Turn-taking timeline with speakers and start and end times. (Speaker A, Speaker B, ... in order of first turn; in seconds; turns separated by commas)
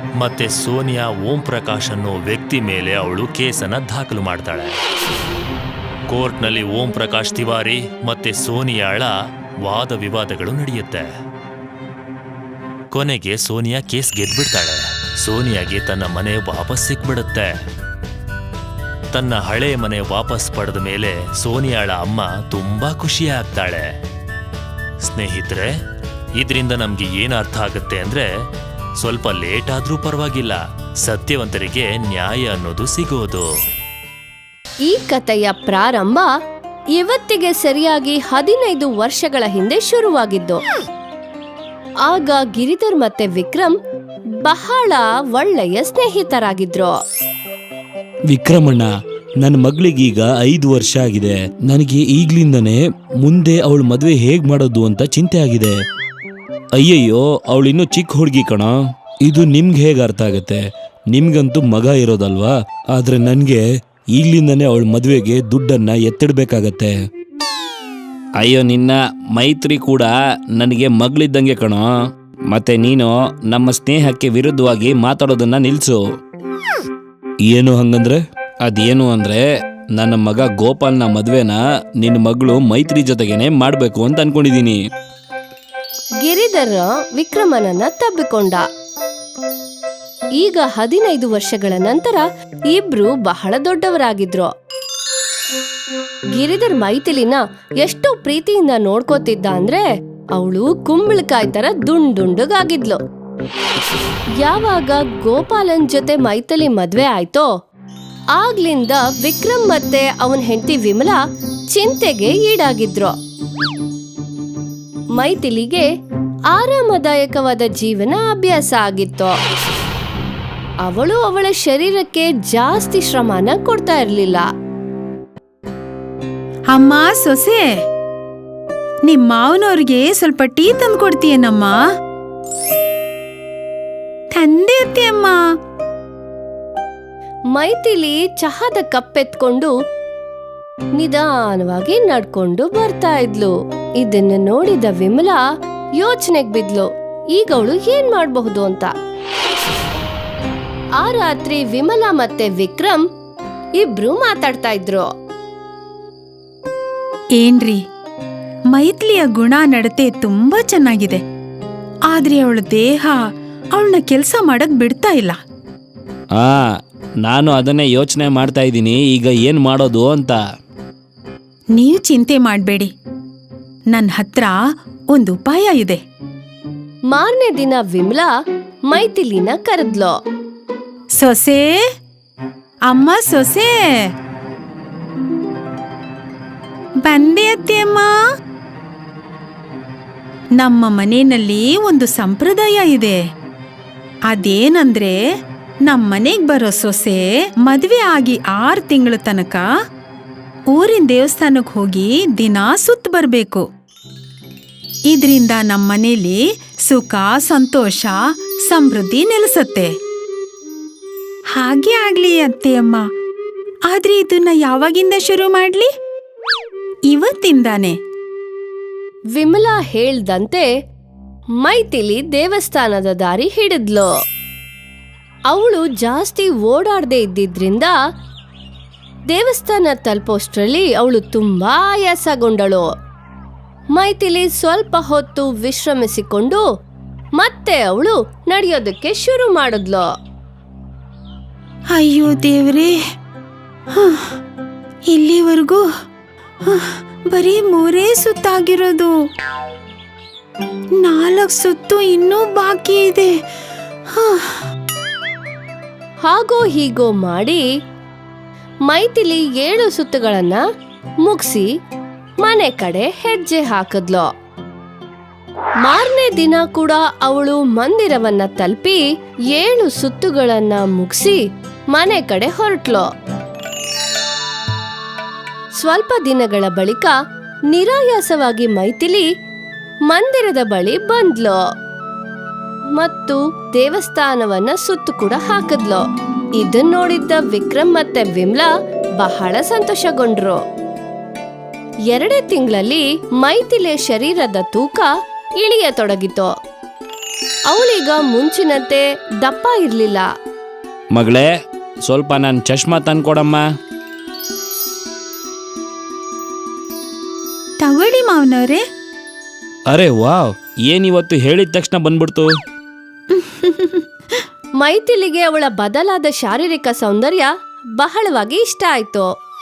Speaker A: 0.2-4.8, Speaker A: 6.1-9.1, Speaker A: 9.6-11.1, Speaker A: 12.9-17.5, Speaker A: 19.1-23.9, Speaker A: 25.0-25.7, Speaker A: 26.4-28.3, Speaker A: 29.0-33.5, Speaker B: 34.8-36.3, Speaker B: 37.0-40.6, Speaker B: 42.0-43.8, Speaker B: 44.4-46.9, Speaker C: 48.3-48.9, Speaker C: 49.4-55.7, Speaker C: 56.8-60.6, Speaker C: 61.1-63.6, Speaker C: 64.1-66.9, Speaker C: 68.4-71.9, Speaker C: 72.5-76.0, Speaker C: 77.5-79.4, Speaker C: 80.0-84.8, Speaker B: 86.2-88.6, Speaker B: 90.4-94.5, Speaker B: 96.3-99.8, Speaker B: 100.3-103.0, Speaker B: 104.4-107.5, Speaker B: 108.3-111.2, Speaker B: 111.7-113.1, Speaker B: 115.1-115.9, Speaker B: 116.5-119.4, Speaker B: 120.8-124.5, Speaker D: 126.7-127.7, Speaker D: 129.1-131.8, Speaker D: 134.3-135.4, Speaker B: 137.5-139.7, Speaker B: 141.0-145.4, Speaker B: 146.0-148.9, Speaker B: 151.0-153.0, Speaker B: 153.8-155.1, Speaker D: 157.4-157.8, Speaker D: 158.7-161.2, Speaker D: 162.1-165.4, Speaker C: 166.3-166.7, Speaker C: 167.2-170.4, Speaker D: 171.8-172.9, Speaker D: 173.9-174.6, Speaker D: 175.1-176.0, Speaker B: 177.1-178.3, Speaker B: 178.9-180.1, Speaker D: 181.2-181.7, Speaker D: 182.9-183.7, Speaker D: 187.0-188.1, Speaker D: 190.6-193.2, Speaker D: 194.3-195.2, Speaker D: 195.8-199.7, Speaker D: 200.7-203.7, Speaker D: 205.1-209.9, Speaker D: 211.6-213.1, Speaker D: 213.9-215.9, Speaker D: 217.1-218.0, Speaker B: 219.3-220.7, Speaker B: 221.6-224.1, Speaker B: 225.5-227.9, Speaker B: 229.3-232.9, Speaker B: 233.9-236.6, Speaker B: 237.4-240.1, Speaker D: 241.9-242.9, Speaker D: 243.9-244.3, Speaker D: 245.1-245.9, Speaker D: 246.7-249.1, Speaker D: 251.0-253.3, Speaker D: 254.1-254.6, Speaker B: 256.2-257.6, Speaker B: 258.9-260.6, Speaker B: 261.2-261.7, Speaker B: 262.4-264.3, Speaker B: 265.8-269.0, Speaker B: 269.5-271.4, Speaker B: 271.9-273.1, Speaker B: 275.8-277.1, Speaker B: 277.7-279.3, Speaker B: 280.1-281.6, Speaker B: 283.0-286.0, Speaker B: 286.6-290.6, Speaker B: 292.1-296.5, Speaker B: 297.7-300.3, Speaker C: 301.1-301.5, Speaker C: 302.0-303.6, Speaker D: 307.8-308.8, Speaker C: 309.9-312.5, Speaker D: 313.3-314.4, Speaker B: 314.8-319.3